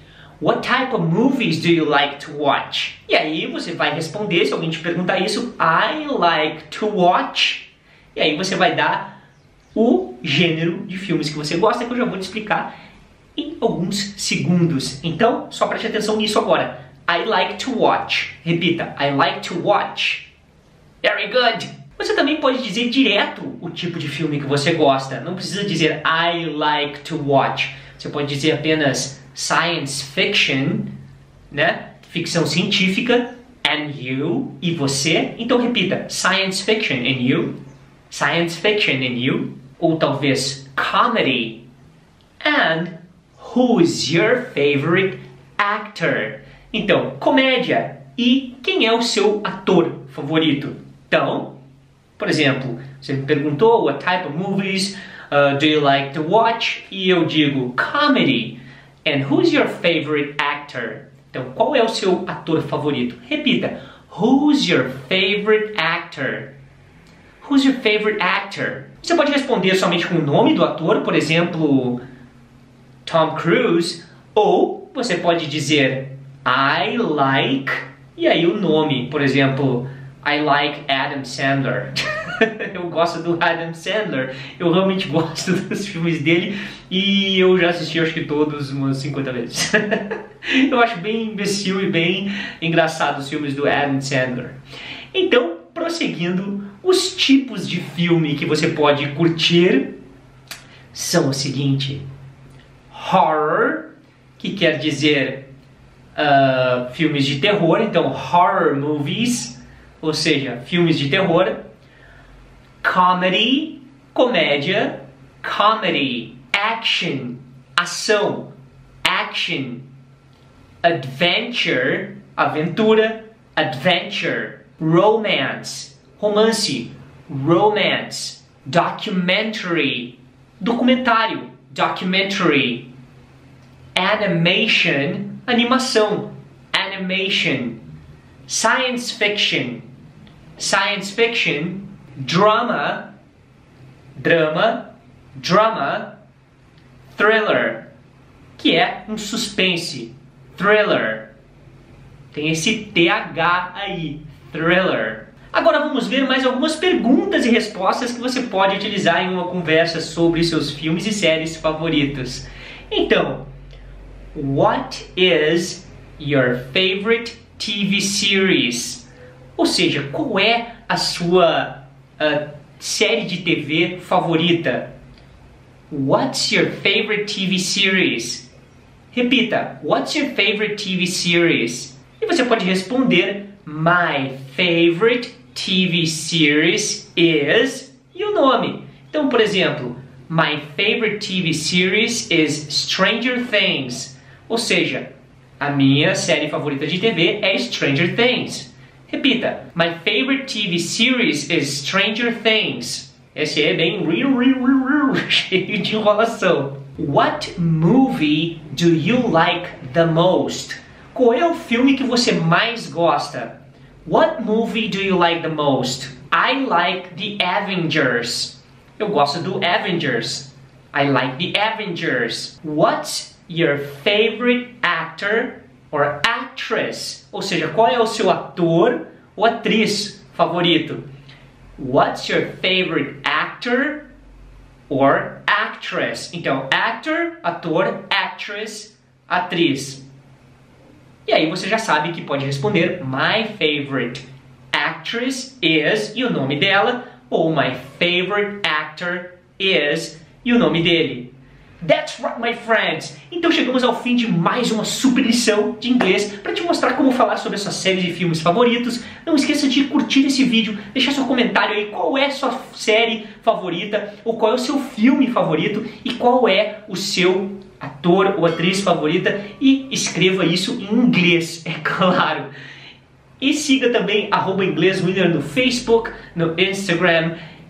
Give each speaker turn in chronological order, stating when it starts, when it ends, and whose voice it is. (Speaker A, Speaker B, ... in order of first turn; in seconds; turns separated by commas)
Speaker A: 0.4-9.1, Speaker A: 9.7-12.7, Speaker A: 13.3-20.3, Speaker A: 21.0-30.9, Speaker A: 31.5-37.5, Speaker A: 38.1-41.6, Speaker A: 42.4-51.5, Speaker A: 52.2-66.5, Speaker A: 67.4-72.0, Speaker A: 73.0-94.6, Speaker A: 95.1-99.9, Speaker A: 100.9-102.0, Speaker A: 102.9-105.4, Speaker A: 106.1-111.6, Speaker A: 112.8-118.5, Speaker A: 119.0-119.8, Speaker A: 120.8-132.9, Speaker A: 133.9-137.8, Speaker A: 138.5-139.8, Speaker A: 140.6-143.1, Speaker A: 144.2-146.1, Speaker A: 147.1-147.8, Speaker A: 148.6-151.2, Speaker A: 152.3-163.4, Speaker A: 164.3-169.0, Speaker A: 169.6-174.9, Speaker A: 175.9-178.4, Speaker A: 179.1-195.1, Speaker A: 195.6-213.5, Speaker A: 214.0-231.0, Speaker A: 231.8-234.0, Speaker A: 234.9-240.0, Speaker A: 241.2-251.3, Speaker A: 251.8-272.5, Speaker A: 273.4-277.3